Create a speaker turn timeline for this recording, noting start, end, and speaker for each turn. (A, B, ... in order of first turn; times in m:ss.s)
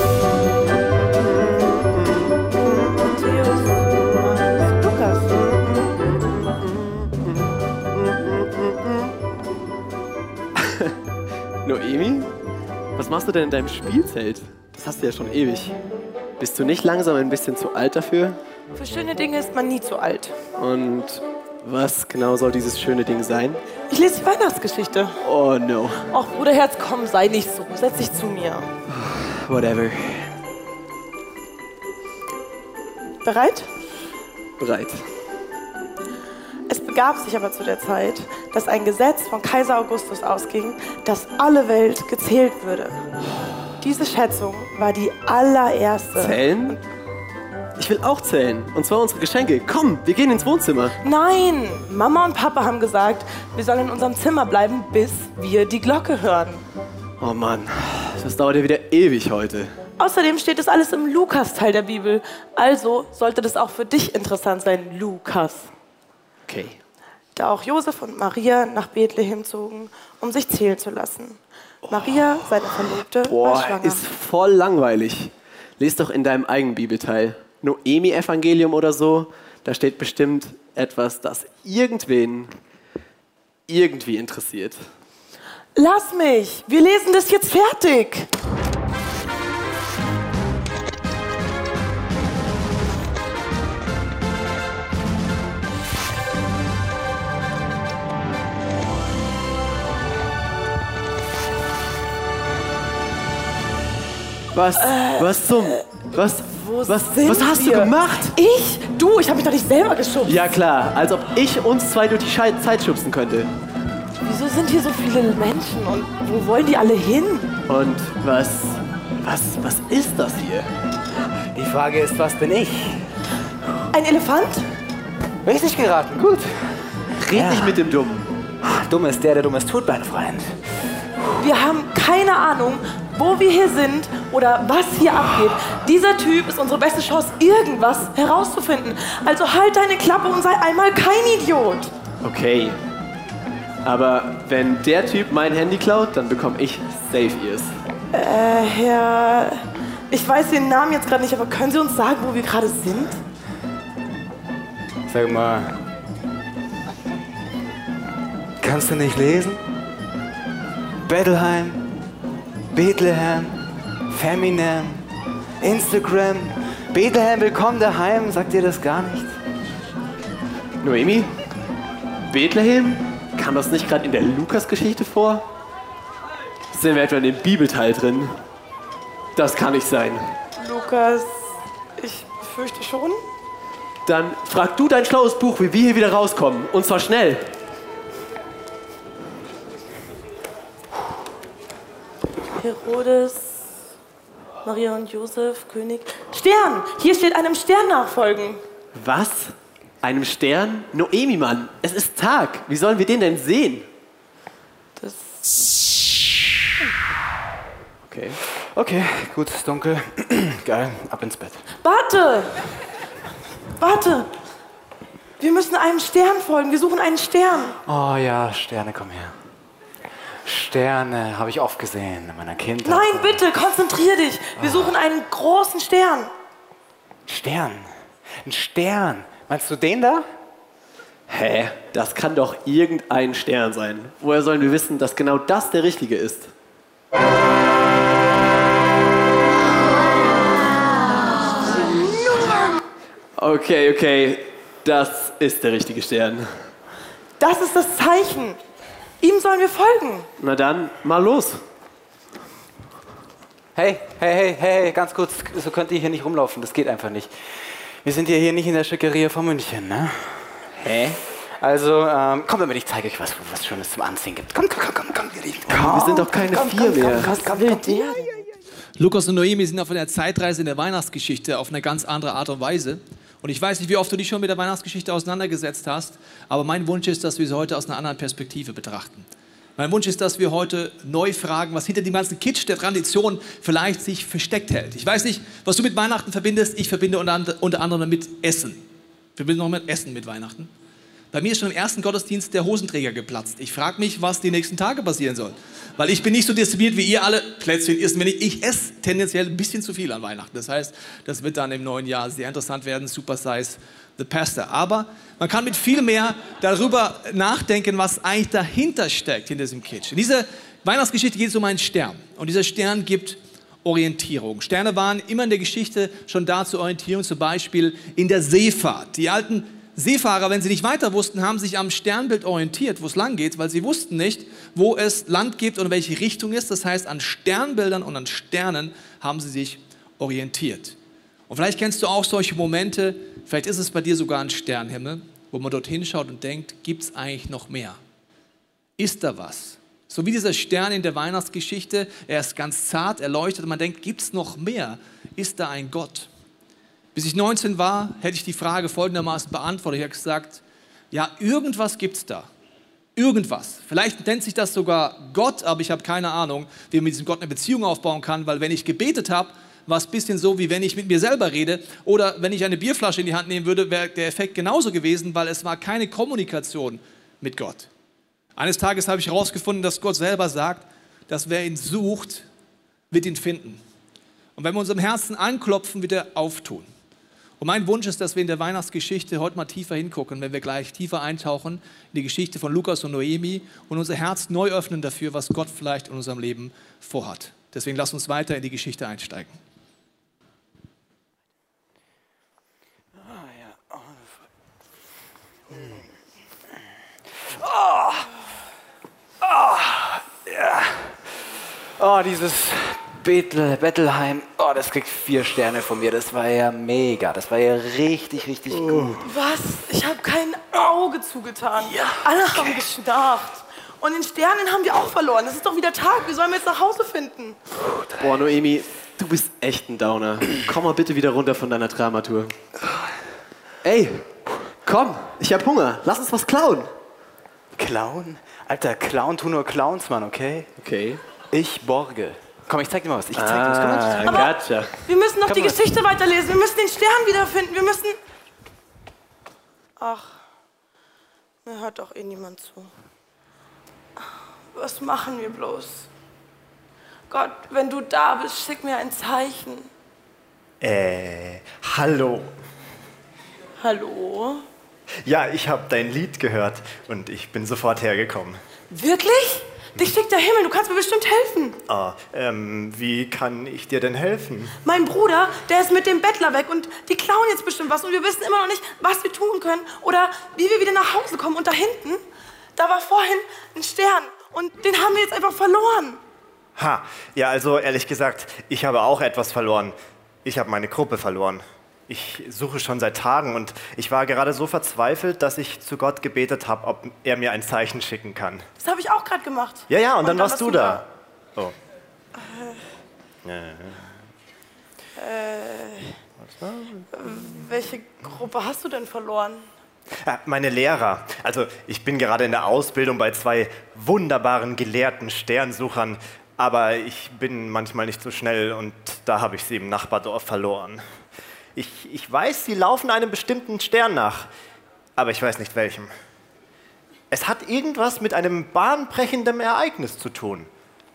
0:01.3-0:02.3 A
0:02.9-0:05.4 B
0:05.7-0:09.3 A
0:10.6-0:11.0 A
0:11.6-0:12.3 A
0:13.0-0:15.8 A
0:16.4-0:18.4 A
0:18.7-0:20.4 B
0:20.6-0:23.6 A
0:23.9-0:25.2 B
0:25.2-0:26.1 A
0:26.1-0:28.7 B
0:28.9-0:30.3 A
0:33.2-0:33.7 B
0:34.6-0:35.0 A
0:36.7-0:43.0 B
0:43.8-0:46.8 B
0:46.2-0:46.8 A
0:47.8-0:51.0 A
0:51.0-0:56.6 B
0:57.2-0:59.7 A
1:00.0-1:05.7 B
1:06.5-1:06.8 A
1:07.3-1:14.0 B
1:13.2-1:22.5 A
1:23.7-1:24.8 A
1:25.8-1:28.3 B
1:44.5-1:48.3 A
1:44.8-1:50.6 B
1:50.2-1:53.5 A
1:54.2-1:57.5 B
1:57.7-2:00.7 A
2:01.5-2:03.1 C
2:03.9-2:04.7 B
2:05.4-2:07.8 C
2:07.2-2:08.3 A
2:08.6-2:10.6 C
2:11.4-2:21.9 B
2:22.2-2:22.8 A
2:23.8-2:27.7 A
2:28.1-2:33.2 B
2:35.1-2:35.8 C
2:38.6-2:39.6 C
2:41.0-2:41.9 C
2:42.7-2:45.0 C
2:45.6-2:49.4 C
2:50.8-2:51.3 A
2:52.3-2:55.4 A
2:56.7-2:58.3 A
2:59.3-3:00.3 A
3:00.6-3:03.2 B
3:04.0-3:07.4 A
3:12.5-3:13.7 B
3:14.6-3:18.6 B
3:18.9-3:23.9 A
3:25.0-3:25.7 B
3:28.0-3:28.4 A
3:28.5-3:31.6 C
3:31.8-3:32.6 B
3:33.8-3:34.3 B
3:35.4-3:37.8 B
3:37.8-3:39.3 C
3:40.4-3:43.4 C
3:42.8-3:46.3 B
3:44.6-3:44.9 C
3:47.3-3:47.9 C
3:48.4-3:50.3 C
3:51.3-3:56.5 A
4:02.2-4:02.7 B
4:03.4-4:06.6 A
4:07.4-4:08.6 B
4:09.2-4:10.3 B
4:10.4-4:11.6 A
4:13.7-4:20.6 C
4:20.8-4:21.2 A
4:21.6-4:28.2 C
4:25.7-4:27.3 A
4:27.5-4:28.1 B
4:29.0-4:39.2 D
4:39.8-4:48.8 D
4:49.4-4:50.7 D
4:51.3-5:31.0 D
5:31.5-5:38.0 D
5:39.0-5:46.3 D
5:47.1-5:52.5 D
5:53.2-6:07.9 D
6:08.6-6:12.4 D
6:13.1-6:13.8 D
6:14.6-6:16.9 D
6:17.6-6:29.6 D
6:33.1-6:34.2 C
6:35.7-6:36.0 C
6:37.5-6:38.3 C
6:39.4-6:41.2 C
6:42.0-6:49.2 C
6:48.7-6:49.2 A
6:49.2-6:57.6 B
6:51.9-6:52.8 C
6:58.2-7:02.5 A
7:03.8-7:06.9 A
7:07.7-7:10.7 C
7:10.8-7:11.2 A
7:11.5-7:14.5 C
7:13.3-7:15.0 A
7:14.2-7:14.5 B
7:15.0-7:18.2 B
7:20.0-7:20.4 B
7:21.6-7:22.9 B
7:24.7-7:26.1 B
7:27.3-7:29.9 B
7:30.8-7:32.5 E
7:33.8-7:34.6 B
7:35.2-7:38.6 E
7:38.9-7:41.8 B
7:41.9-7:44.7 E
7:44.8-7:52.2 B
7:52.8-7:56.2 B
7:56.8-8:08.6 E
8:08.8-8:11.0 B
8:09.9-8:11.7 E
8:12.4-8:12.8 B
8:13.4-8:14.0 E
8:15.2-8:16.2 B
8:16.4-8:17.0 E
8:17.1-8:19.7 B
8:20.2-8:31.0 E
8:31.7-8:34.5 E
8:35.2-8:36.1 E
8:37.3-8:40.7 E